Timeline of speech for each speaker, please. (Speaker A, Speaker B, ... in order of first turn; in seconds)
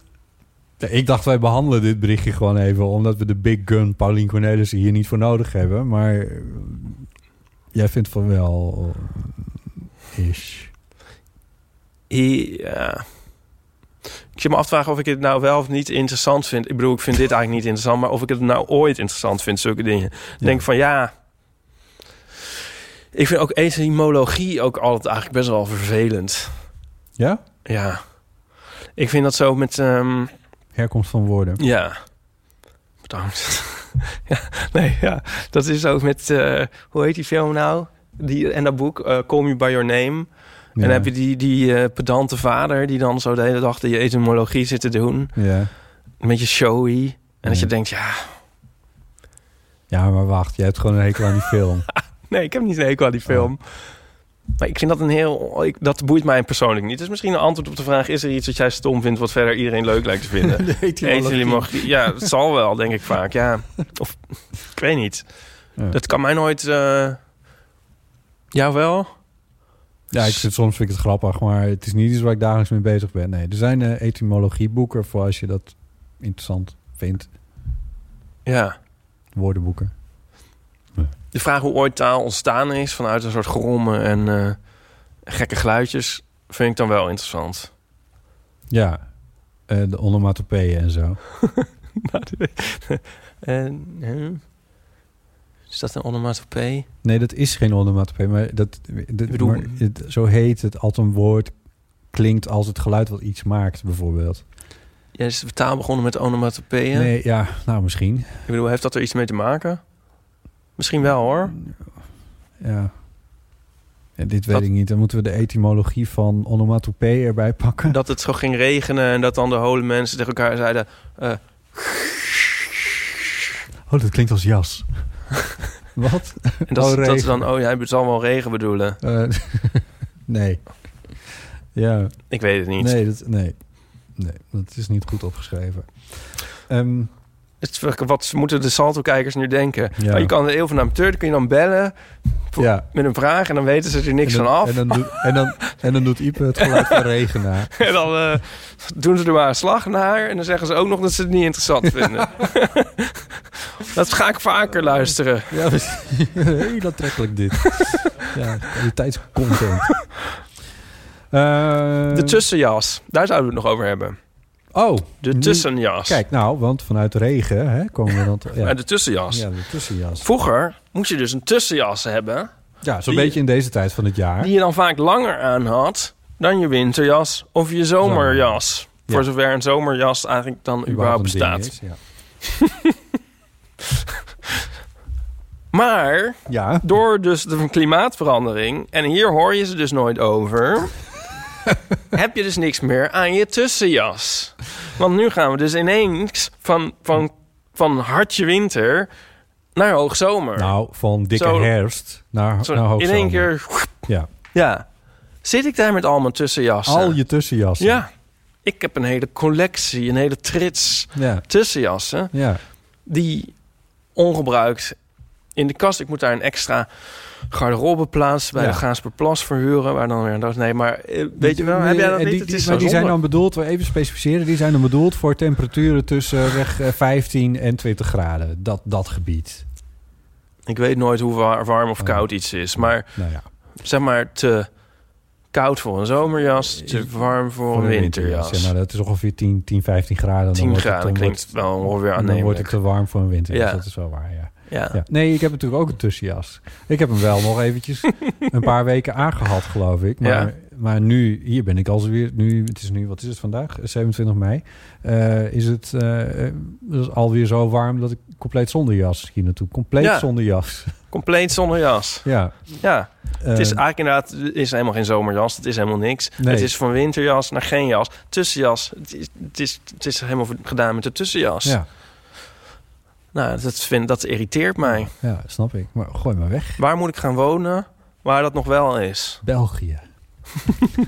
Speaker A: 0.8-7.1, 7.7-10.7, 20.4-20.6, 30.8-31.6, 40.8-41.1, 45.4-45.7, 47.5-47.7, 49.9-51.9, 53.3-53.5, 60.5-62.3, 70.1-77.3, 79.3-79.9, 88.7-91.2, 97.0-101.5, 102.1-104.4, 106.9-108.3, 111.5-112.0, 112.6-112.9, 114.2-118.0, 123.9-125.3, 126.0-127.5, 129.0-137.1, 140.0-140.3, 142.6-142.9, 144.2-147.9, 155.5-160.1, 161.3-162.4, 164.7-170.3, 172.8-174.5, 178.0-179.3, 180.9-182.0, 186.5-186.8, 200.6-204.3, 206.8-208.1, 211.2-211.5, 212.3-212.6, 218.6-218.8, 221.4-229.7, 232.0-233.5, 236.8-237.1, 237.7-260.9, 262.2-262.6, 263.4-263.8, 266.4-266.7, 274.9-276.8, 279.4-280.5
Speaker B: 12.1-13.1, 14.3-21.1, 23.1-26.6, 27.7-30.3, 31.6-32.0, 33.0-45.4, 46.2-48.4, 52.3-53.9, 54.6-67.2, 68.5-69.2, 78.5-78.8, 81.3-87.7, 92.0-94.4, 95.7-96.9, 99.3-99.8, 105.2-107.1, 108.5-109.9, 110.8-111.6, 117.9-122.7, 126.7-129.0, 132.3-133.0, 137.6-141.9, 142.5-145.4, 146.6-147.0, 147.8-153.2, 153.9-155.5, 157.7-158.0, 162.1-164.2, 165.2-166.2, 168.6-169.5, 170.2-172.5, 173.1-173.4, 174.4-181.8, 182.4-182.7, 185.7-191.0, 192.1-199.1, 199.8-201.9, 202.6-212.3, 212.9-215.0, 215.6-223.2, 230.7-238.7, 240.6-245.0, 250.2-250.5, 260.0-260.3, 261.1-271.8, 273.3-275.1, 276.8-279.4